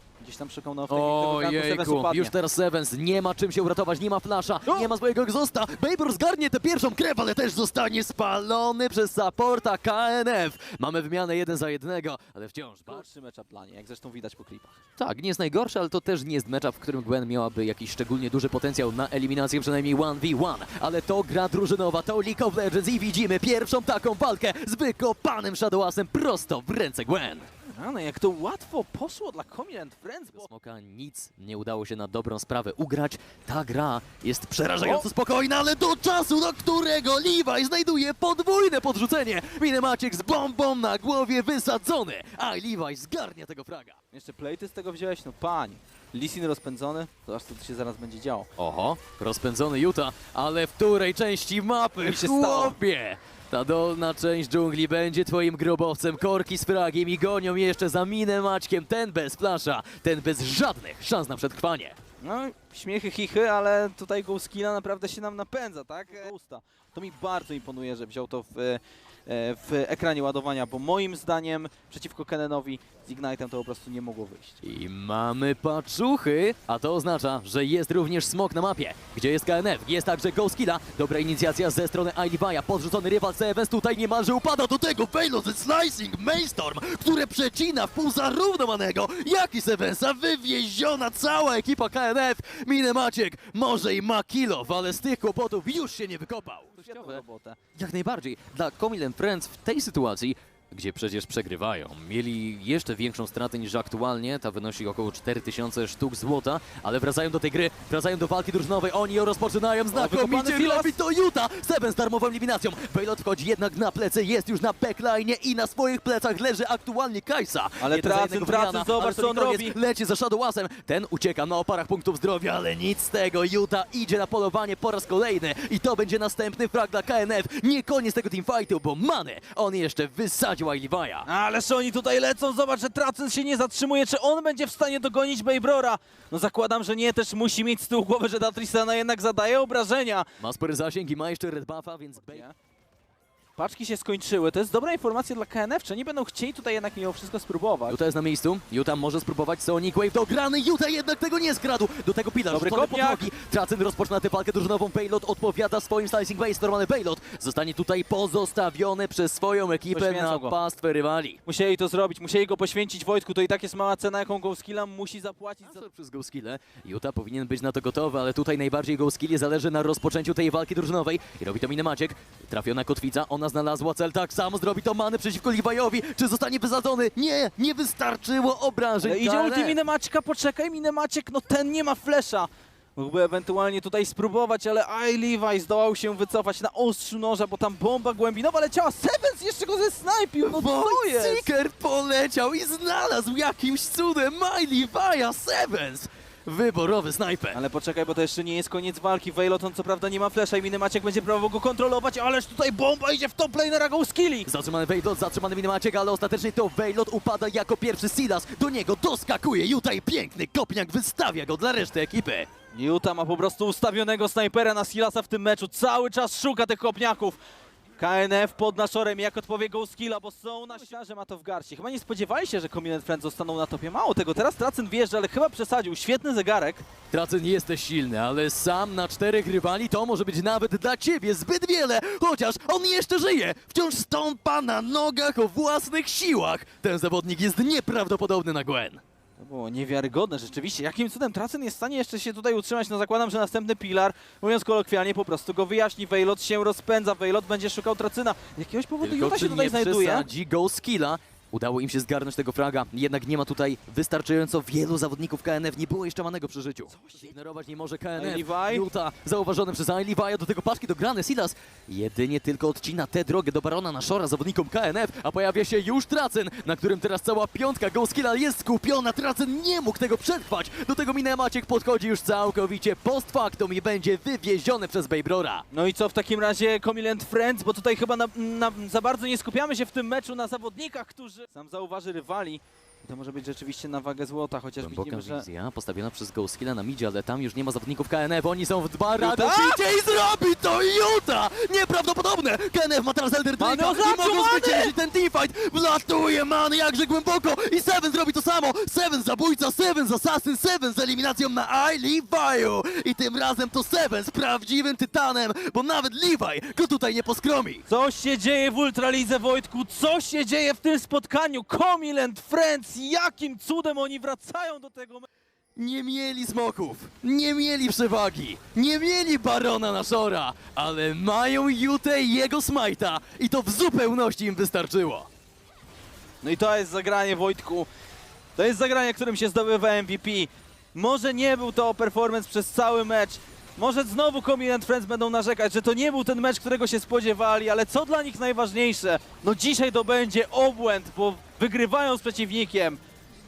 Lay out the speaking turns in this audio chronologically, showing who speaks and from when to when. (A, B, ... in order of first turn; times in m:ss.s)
0:00.2-0:02.4 A
0:00.9-0:13.0 B
0:12.9-0:14.8 A
0:15.0-0:27.5 B
0:27.7-0:30.5 A
0:30.3-0:44.0 B
0:44.1-0:48.5 A
0:48.6-1:02.0 B
0:52.0-0:52.8 A
1:02.2-1:14.6 A
1:14.6-1:37.2 B
1:36.7-1:37.6 A
1:37.8-2:11.3 B
1:49.9-1:51.0 A
1:57.8-1:59.8 A
2:11.2-2:20.3 A
2:20.4-2:22.4 B
2:22.2-2:22.5 A
2:23.6-2:28.0 A
2:27.9-2:41.4 B
2:32.5-2:33.3 A
2:39.9-2:40.6 A
2:41.4-2:45.8 A
2:45.7-2:59.8 B
2:59.0-3:11.5 A
3:10.4-3:17.6 B
3:17.5-3:24.5 A
3:24.4-3:32.5 B
3:32.7-3:37.4 A
3:38.0-3:46.8 A
3:47.1-3:59.0 B
3:59.4-4:10.3 A
4:09.0-4:35.7 B
4:16.9-4:17.3 A
4:18.2-4:18.9 A
4:35.7-4:45.5 A
4:44.8-5:07.8 B
4:49.2-4:49.8 A
4:53.6-4:55.0 A
5:07.9-5:15.3 A
5:15.8-5:25.3 B
5:26.4-5:27.9 A
5:28.6-5:43.0 A